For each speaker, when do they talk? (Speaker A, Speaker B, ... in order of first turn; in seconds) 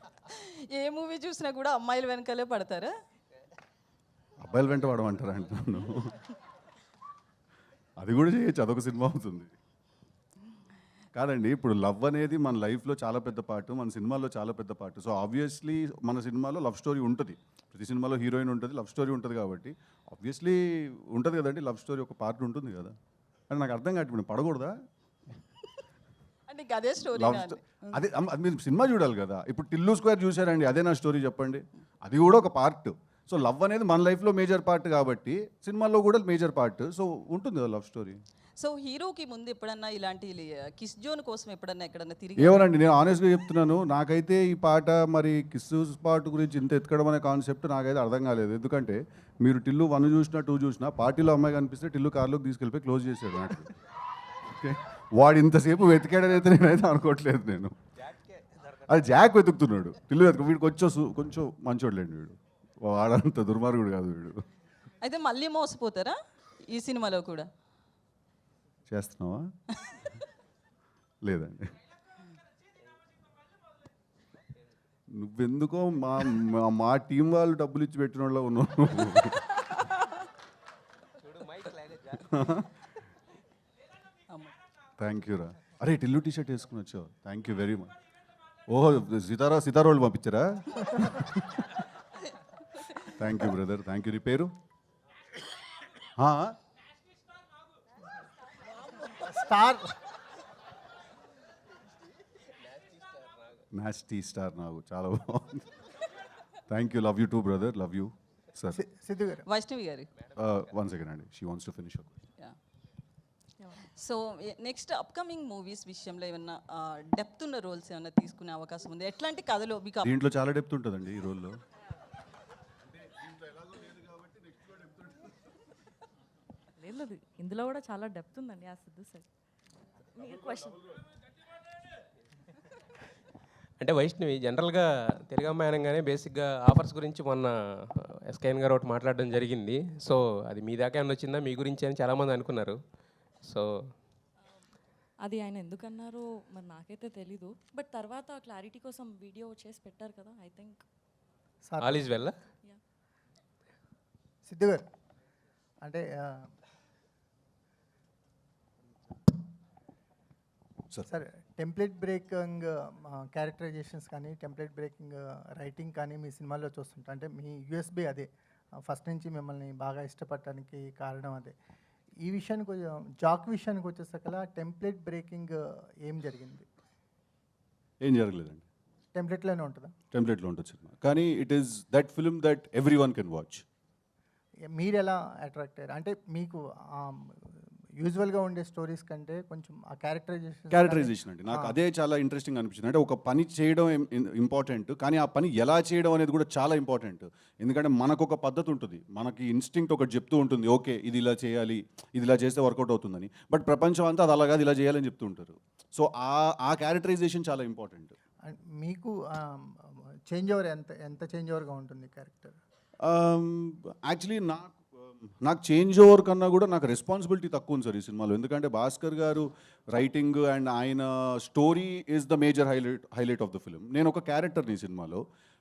Speaker A: 0.4-2.9, 26.5-27.6, 38.6-42.7, 65.0-67.5, 109.5-110.1, 113.8-120.1
Speaker B: 4.4-6.2, 8.0-9.5, 11.1-22.9, 23.5-24.7, 27.1-38.2, 42.4-53.7, 54.5-57.7, 58.8-64.4, 68.9-69.4, 71.2-71.8, 75.2-79.6, 82.2-82.7, 85.0-87.9, 88.7-91.7, 93.1-94.5, 96.2-96.6, 103.7-105.8, 106.7-108.8, 110.3-112.1, 120.0-121.6, 123.2-125.1, 178.0-178.7, 180.1-183.6, 190.7-208.1, 213.0-225.2
Speaker C: 99.1-99.8, 108.7-109.5, 151.6-152.1, 154.4-154.8, 155.8-156.4, 161.1-168.3, 168.9-171.5, 172.2-176.7, 179.1-179.9, 184.7-187.3, 188.0-191.8, 208.4-209.5, 210.3-212.6
Speaker D: 113.6-113.8, 126.8-129.3, 130.2-131.0, 145.2-150.8
Speaker E: 133.8-137.5, 138.3-142.8, 151.8-152.3